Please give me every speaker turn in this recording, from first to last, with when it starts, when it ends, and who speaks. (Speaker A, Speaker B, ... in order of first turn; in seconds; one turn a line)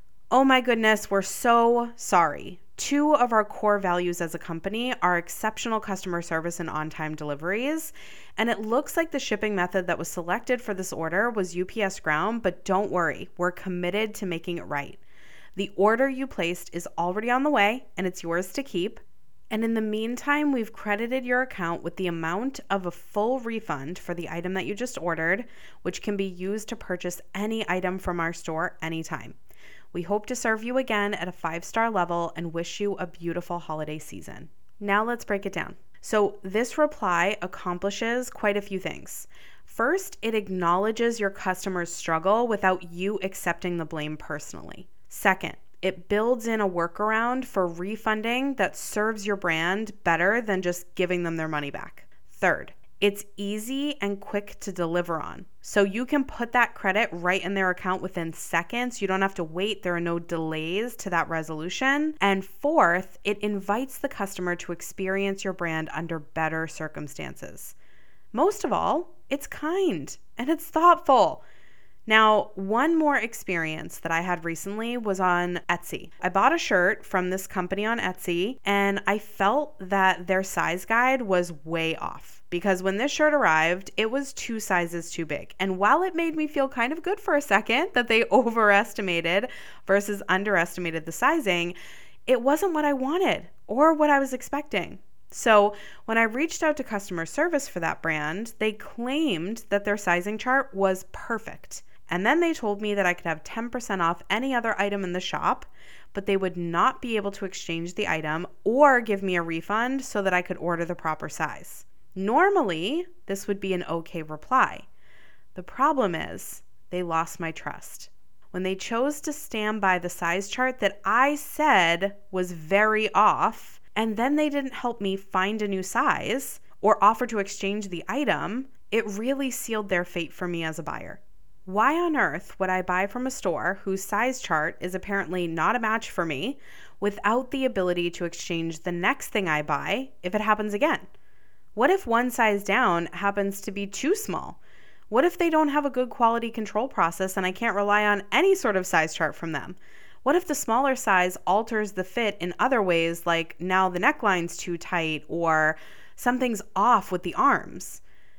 Speaker A: 0.3-15.0
Speaker A: 15.6-29.4
Speaker A: 29.9-67.8
Speaker A: 68.3-71.4
Speaker A: 72.1-91.7
Speaker A: 92.3-114.9
Speaker A: 115.5-141.1
Speaker A: 141.7-144.6
Speaker A: 145.1-158.0